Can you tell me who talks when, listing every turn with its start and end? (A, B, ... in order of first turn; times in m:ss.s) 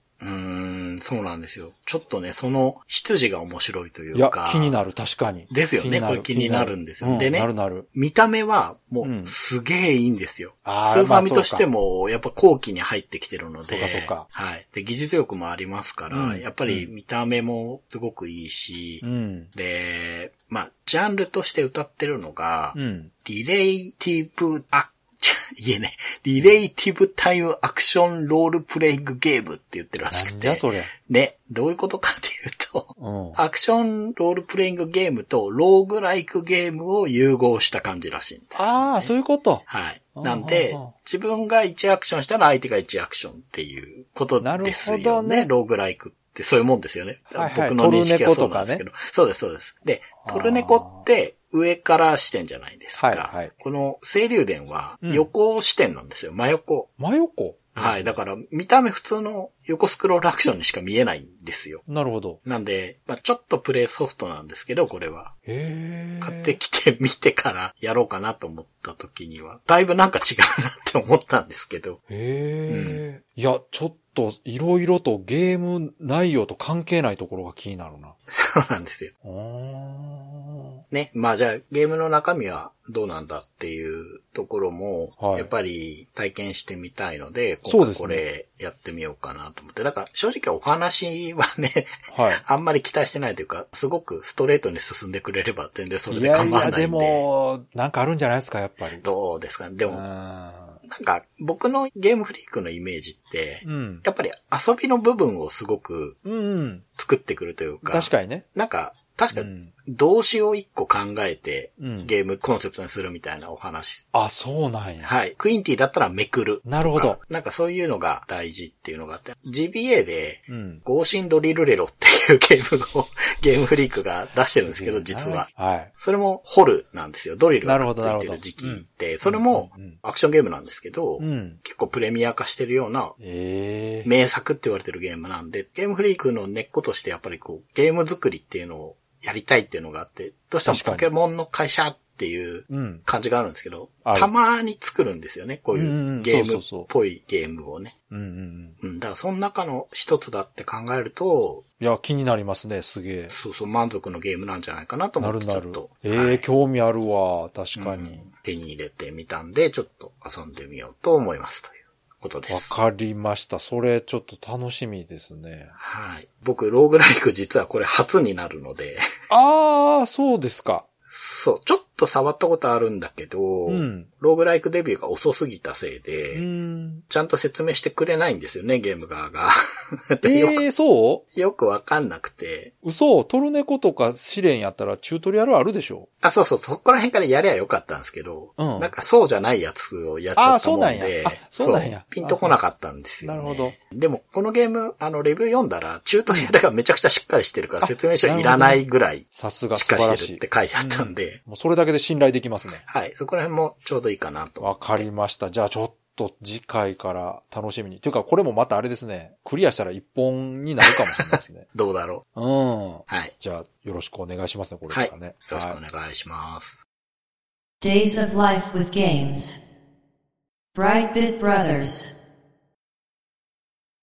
0:00.2-0:04.8 A
0:04.1-0:07.9 B
0:05.5-0:39.1 A
0:09.0-0:09.3 B
0:10.6-0:11.7 B
0:13.7-0:14.3 B
0:16.1-0:16.9 B
0:19.0-0:19.5 B
0:22.7-0:23.1 B
0:30.1-0:30.9 B
0:33.0-0:33.4 B
0:38.5-0:39.6 B
0:39.6-0:56.9 A
0:40.2-0:40.9 B
0:44.4-0:45.5 B
0:47.3-0:48.8 B
0:50.2-0:51.1 B
0:53.0-0:53.5 B
0:55.0-0:55.3 B
0:57.0-0:58.1 B
0:57.8-1:01.8 A
1:01.8-1:02.4 B
1:02.4-1:05.3 A
1:05.5-1:06.5 B
1:06.2-1:12.0 A
1:12.1-1:18.2 B
1:12.7-1:13.0 A
1:18.3-1:19.1 A
1:19.2-1:20.8 B
1:20.9-1:37.2 A
1:25.2-1:25.5 B
1:27.7-1:28.2 B
1:32.1-1:32.4 B
1:36.1-1:39.0 B
1:39.0-1:40.0 A
1:39.9-1:40.8 B
1:40.8-1:46.2 A
1:43.6-1:44.0 B
1:46.2-1:46.8 B
1:47.0-1:54.0 A
1:47.8-1:48.5 B
1:49.3-1:49.7 B
1:51.8-1:52.1 B
1:54.1-1:55.1 B
1:55.0-2:13.2 A
1:56.7-1:57.2 B
2:00.5-2:00.8 B
2:04.6-2:05.9 B
2:07.6-2:10.0 B
2:11.2-2:11.6 B
2:13.2-2:14.1 B
2:14.0-2:27.9 A
2:20.6-2:21.1 B
2:22.7-2:23.0 B
2:24.0-2:24.3 B
2:25.7-2:26.9 B
2:28.1-2:28.8 B
2:28.8-2:31.6 A
2:31.8-2:33.3 B
2:33.3-2:36.5 A
2:35.2-2:38.3 B
2:37.8-2:42.7 A
2:42.5-2:45.7 B
2:45.8-2:49.0 A
2:49.3-2:50.8 B
2:51.1-2:56.4 A
2:53.7-2:54.1 B
2:56.3-2:57.0 B
2:57.1-3:00.6 A
3:00.2-3:01.2 B
3:01.3-3:02.7 A
3:02.8-3:06.1 B
3:06.2-3:21.4 A
3:08.6-3:08.9 B
3:10.4-3:12.6 B
3:13.2-3:13.8 B
3:17.8-3:22.8 B
3:22.8-3:25.1 A
3:24.6-3:31.7 B
3:30.8-3:32.2 A
3:32.4-3:35.8 B
3:33.1-3:33.3 A
3:34.9-3:36.8 A
3:37.8-3:39.6 C
3:40.8-3:42.1 C